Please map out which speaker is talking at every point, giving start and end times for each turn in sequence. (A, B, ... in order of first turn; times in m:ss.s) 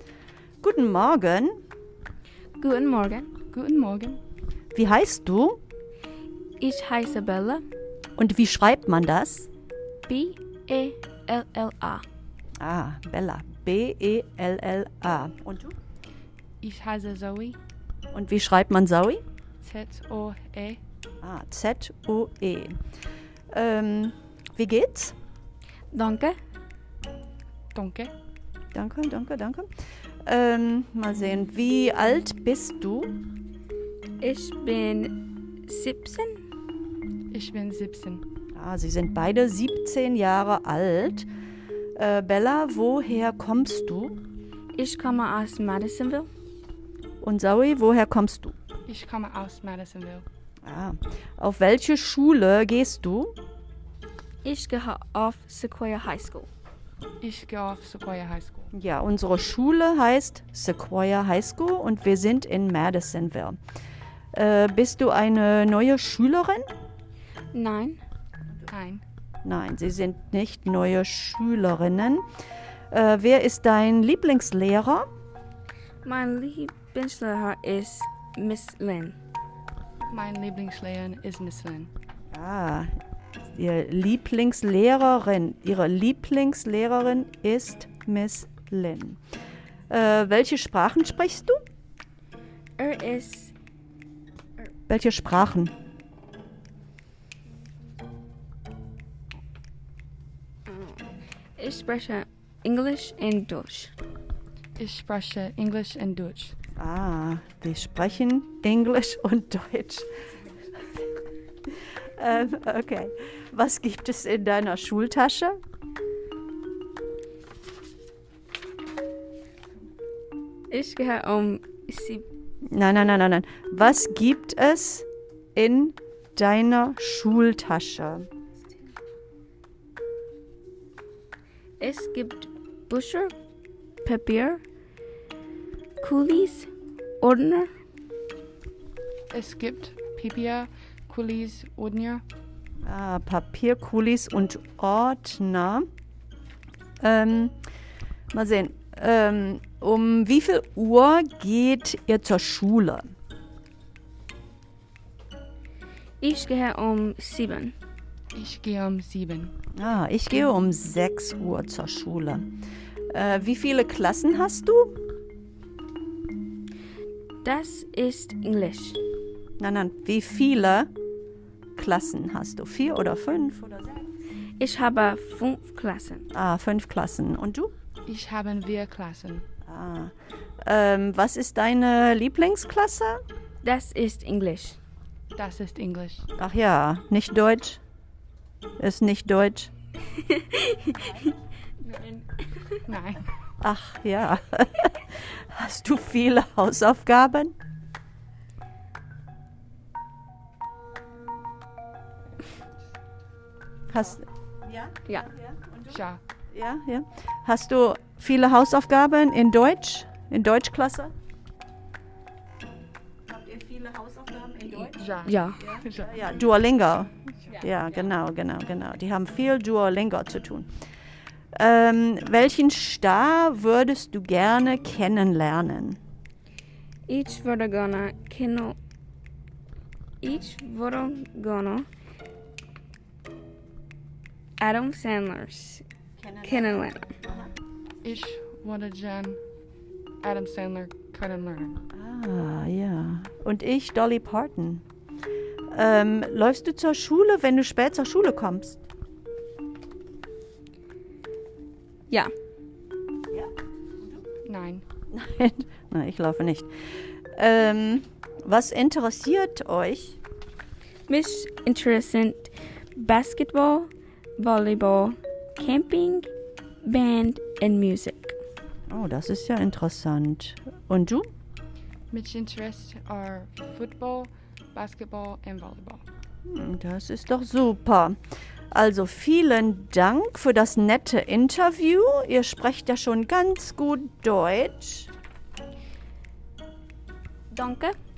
0:00.6-0:01.6 A
0:02.6-0:03.3 B
0:03.5-0:04.2 C
0:04.7-0:05.6 A
0:06.6-0:07.6 B
0:08.2-0:09.5 A
0:10.1-0:12.0 B
0:12.6-0:15.8 A
0:16.6-0:17.6 C
0:18.1-0:19.2 A
0:19.6-0:20.8 C
0:21.2-0:22.8 A
0:23.5-0:25.2 A
0:25.9-0:26.4 B
0:27.7-0:28.1 C
0:28.7-0:29.7 A
0:30.3-0:33.2 A
0:34.2-0:36.4 B
0:37.3-0:38.2 C
0:38.5-0:41.3 A
0:42.0-0:44.2 A
0:44.7-0:46.3 B
0:47.2-0:48.6 A
0:48.9-0:50.3 C
0:50.6-0:53.4 A
0:54.4-0:56.5 B
0:57.2-0:58.7 C
0:58.7-1:03.6 A
1:04.3-1:06.7 A
1:07.5-1:08.0 B
1:08.7-1:09.0 C
1:09.4-1:12.2 A
1:12.9-1:15.1 A
1:16.0-1:19.2 B
1:20.1-1:21.9 C
1:22.3-1:22.9 A
1:23.4-1:29.2 A
1:29.9-1:31.6 A
1:32.8-1:33.5 B
1:34.9-1:35.7 A
1:40.7-1:41.0 B
1:41.6-1:43.9 B
1:44.8-1:46.6 C
1:46.8-1:50.1 A
1:52.2-1:55.6 A
2:00.7-2:02.2 B
2:02.7-2:08.3 A
2:11.8-2:13.3 B
2:14.0-2:14.6 B
2:16.0-2:16.7 B
2:17.2-2:17.7 B
2:19.3-2:22.2 C
2:22.8-2:25.9 A
2:27.0-2:27.6 A
2:28.3-2:33.1 A
2:36.2-2:37.8 B
2:38.4-2:39.5 C
2:39.8-2:42.5 A
2:43.1-2:45.0 A
2:47.4-2:49.0 B
2:49.6-2:50.9 A
2:51.8-2:54.1 A
2:54.6-2:56.3 B
2:56.3-2:57.7 A
2:58.1-2:59.5 C
2:59.7-3:03.2 A
3:03.6-3:04.8 B
3:05.4-3:06.3 C
3:06.4-3:07.8 A
3:08.8-3:09.7 A
3:10.3-3:11.1 B
3:11.8-3:12.2 B
3:12.9-3:13.2 C
3:13.6-3:17.5 A
3:23.9-3:31.1 A
3:25.9-3:26.2 C
3:33.3-3:35.0 A
3:34.9-3:36.2 C
3:35.2-3:35.8 B
3:35.6-3:40.7 A
3:41.6-3:46.0 A
3:47.1-3:48.8 B
3:50.2-3:51.9 B
3:54.6-3:55.8 B
3:56.2-3:57.5 A
3:56.4-3:57.2 B
3:58.0-3:59.4 C
4:00.2-4:01.8 C
4:01.9-4:04.8 A
4:05.7-4:08.8 A
4:14.4-4:14.8 C
4:15.1-4:16.7 A
4:17.4-4:20.2 A
4:21.1-4:26.3 B
4:26.8-4:28.4 B
4:28.9-4:31.3 A
4:32.1-4:36.0 C
4:36.4-4:38.2 A
4:38.7-4:45.1 A
4:47.5-4:48.0 B